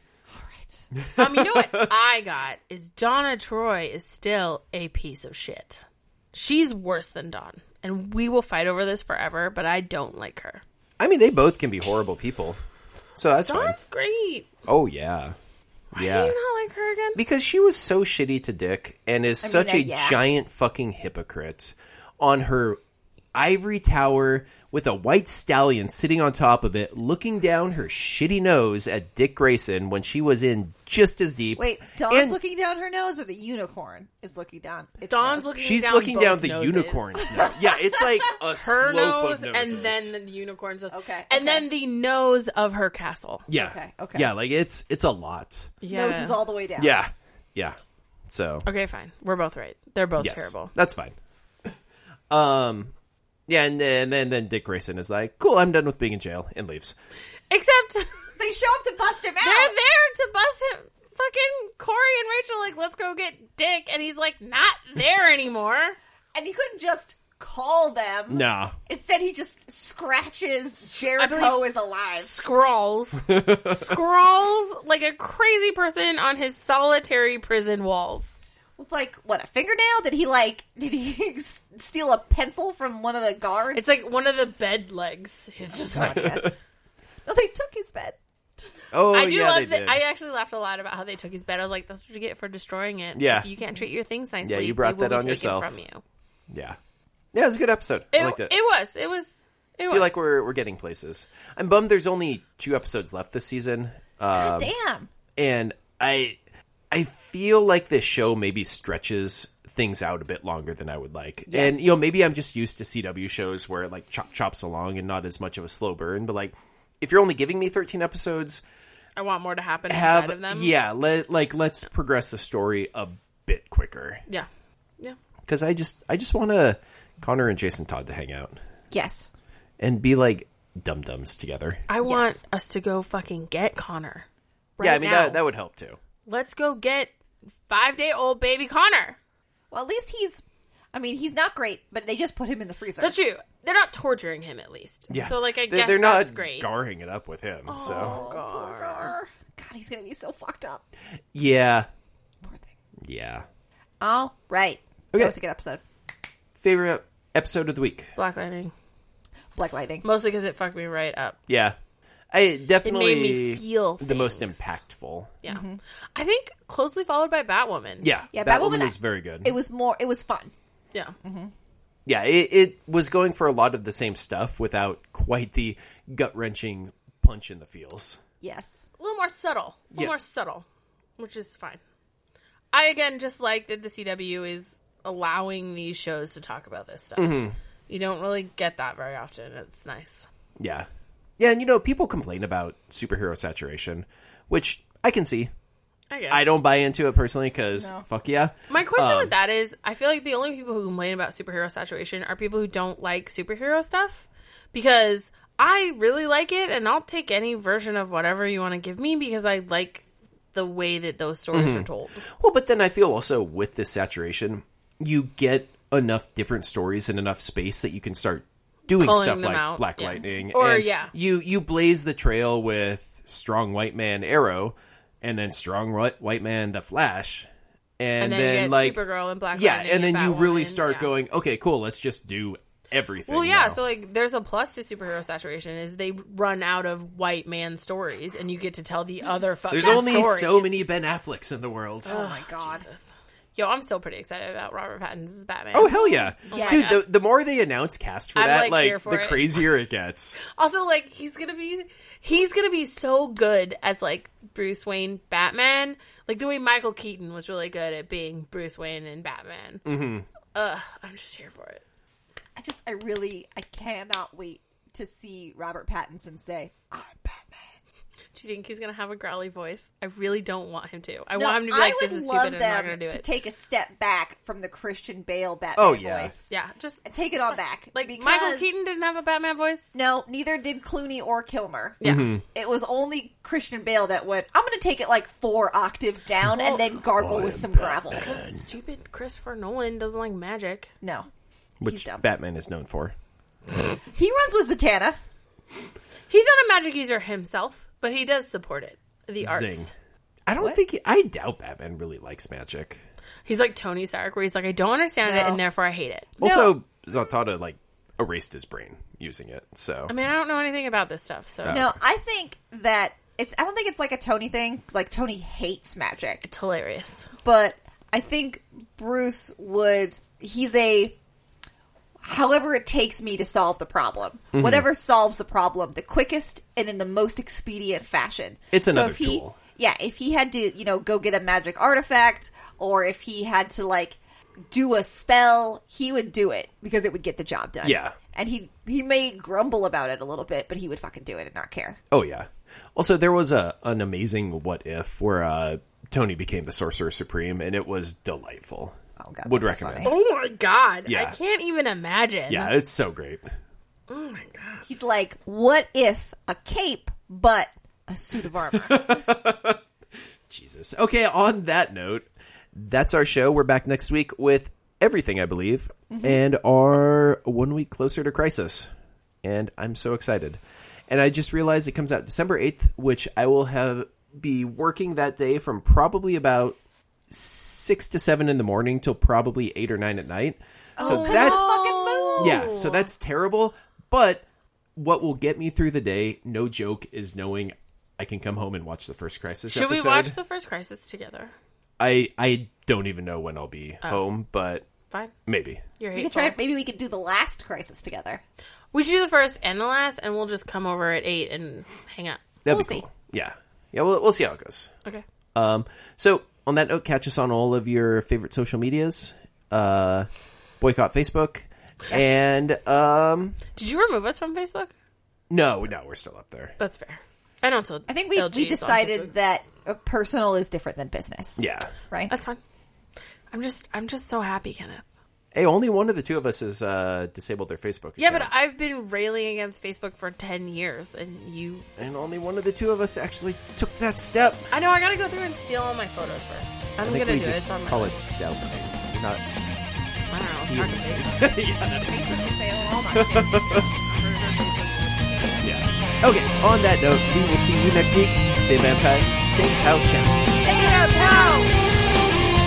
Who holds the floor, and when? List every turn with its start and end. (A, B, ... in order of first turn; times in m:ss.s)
0:00.3-0:00.9 A
0:01.0-0:01.9 B
0:01.2-0:10.6 C
0:11.0-0:12.6 B
0:13.2-0:13.8 B
0:13.5-0:14.5 C
0:14.7-0:15.4 B
0:15.9-0:17.2 C
0:16.0-0:16.4 B
0:17.2-0:22.8 B
0:19.4-0:20.2 A
0:23.4-0:32.4 B
0:31.6-0:35.6 A
0:35.1-0:37.5 C
0:35.6-0:40.1 B
0:38.5-0:43.5 C
0:40.9-0:41.7 A
0:43.5-0:45.7 B
0:43.6-0:44.3 A
0:45.8-0:46.4 C
0:45.9-0:47.0 A
0:46.8-0:47.8 B
0:48.3-0:48.7 B
0:48.7-0:50.7 C
0:50.2-0:51.7 B
0:52.3-0:52.9 B
0:53.5-0:57.0 B
0:57.5-0:58.1 C
0:58.4-0:59.8 A
0:59.4-1:06.0 C
1:06.3-1:12.3 A
1:08.3-1:08.8 B
1:11.2-1:11.7 C
1:12.2-1:18.3 C
1:13.2-1:14.0 B
1:18.8-1:23.9 A
1:23.7-1:26.5 C
1:25.7-1:26.6 A
1:26.0-1:26.5 B
1:27.3-1:28.2 A
1:28.9-1:30.0 B
1:29.1-1:36.0 C
1:33.2-1:33.5 B
1:34.4-1:35.7 B
1:36.5-1:36.8 B
1:37.3-1:38.5 B
1:38.1-1:40.2 C
1:39.9-1:44.7 B
1:44.3-1:45.1 A
1:45.4-1:46.4 B
1:46.9-1:58.6 B
1:51.5-1:51.9 A
1:59.2-2:00.7 C
1:59.9-2:04.2 B
2:05.5-2:08.6 B
2:08.9-2:09.3 A
2:09.8-2:11.8 B
2:11.9-2:14.3 C
2:12.0-2:12.4 A
2:14.8-2:15.4 C
2:14.8-2:16.0 B
2:16.3-2:17.1 C
2:17.7-2:19.2 C
2:19.7-2:23.2 A
2:23.0-2:26.7 C
2:25.1-2:28.2 B
2:27.7-2:29.2 C
2:27.8-2:30.8 A
2:31.3-2:31.9 B
2:32.4-2:32.7 A
2:33.0-2:33.5 B
2:34.0-2:35.8 A
2:36.6-2:38.1 B
2:38.2-2:38.7 C
2:39.6-2:40.0 A
2:40.0-2:41.4 C
2:41.5-2:41.8 B
2:42.3-2:45.3 B
2:42.8-2:44.6 C
2:45.4-2:48.1 C
2:45.5-2:45.8 A
2:48.0-2:49.6 B
2:48.3-2:50.5 A
2:51.2-2:51.5 A
2:52.1-2:58.2 B
2:58.4-2:58.8 A
2:59.0-3:00.7 C
3:01.2-3:01.8 C
3:02.7-3:10.2 C
3:07.2-3:07.6 B
3:10.6-3:10.9 B
3:11.4-3:15.5 B
3:16.1-3:16.5 C
3:16.3-3:19.3 B
3:17.8-3:18.0 A
3:18.7-3:32.2 C
3:31.5-3:47.5 B
3:39.0-3:41.1 C
3:48.0-3:49.0 B
3:48.2-3:51.1 C
3:49.5-3:53.8 B
3:53.3-4:00.7 C
3:59.7-4:02.2 B
4:02.0-4:02.9 A
4:02.1-4:07.0 C
4:05.7-4:10.4 B
4:06.5-4:07.0 A
4:08.4-4:09.6 C
4:10.5-4:19.9 C
4:19.9-4:20.3 B
4:20.5-4:21.8 C
4:22.6-4:27.8 A
4:28.3-4:33.2 C
4:31.4-4:36.5 A
4:35.8-4:36.3 B
4:36.5-4:39.9 C
4:37.0-4:38.8 A
4:39.9-4:48.3 A
4:42.0-4:42.3 C
4:42.0-4:42.4 B
4:46.6-4:46.8 C
4:47.1-4:48.6 B
4:48.2-4:50.9 C
4:51.0-4:51.3 A
4:51.8-4:53.2 B
4:51.8-4:52.2 A
4:54.1-4:55.2 A
4:56.3-4:59.9 C
4:59.4-4:59.9 B
5:00.5-5:03.0 B
5:03.4-5:06.8 C
5:05.2-5:05.6 A
5:06.4-5:10.1 B
5:10.1-5:11.8 C
5:11.6-5:11.9 B
5:11.7-5:16.5 A
5:16.4-5:17.2 C
5:17.4-5:21.2 A
5:22.2-5:34.2 A
5:24.5-5:24.9 B
5:28.7-5:29.6 B
5:34.7-5:42.0 A
5:37.8-5:38.2 B
5:42.1-5:50.1 B
5:49.2-5:50.1 A
5:50.0-5:52.7 C
5:51.1-5:51.4 B
5:52.5-5:53.5 B
5:54.1-5:54.8 C
5:54.9-5:59.2 A
5:58.7-5:59.8 B
6:00.5-6:08.9 B
6:06.1-6:06.4 A
6:09.4-6:16.8 B
6:17.3-6:21.7 B
6:21.0-6:22.7 A
6:21.0-6:23.1 C
6:22.4-6:24.4 B
6:25.0-6:30.4 B
6:29.7-6:31.5 C
6:32.0-6:34.9 B
6:35.5-6:35.8 B
6:36.0-6:36.6 C
6:36.1-6:38.4 A
6:38.9-6:42.4 C
6:42.7-6:44.9 B
6:42.7-6:43.1 A
6:45.6-6:50.3 B
6:50.8-6:53.6 B
6:52.1-6:52.4 A
6:53.8-6:54.9 C
6:55.5-6:56.8 B
6:56.8-6:59.3 C
6:58.1-7:02.3 A
7:01.6-7:01.9 B
7:02.3-7:02.6 C
7:03.5-7:05.1 C
7:05.5-7:08.5 B
7:08.2-7:11.9 C
7:12.0-7:14.7 B
7:14.7-7:18.2 C
7:17.0-7:22.6 B
7:20.3-7:21.4 C
7:22.0-7:25.6 A
7:23.1-7:23.9 B
7:25.6-7:30.4 B
7:30.6-7:31.8 A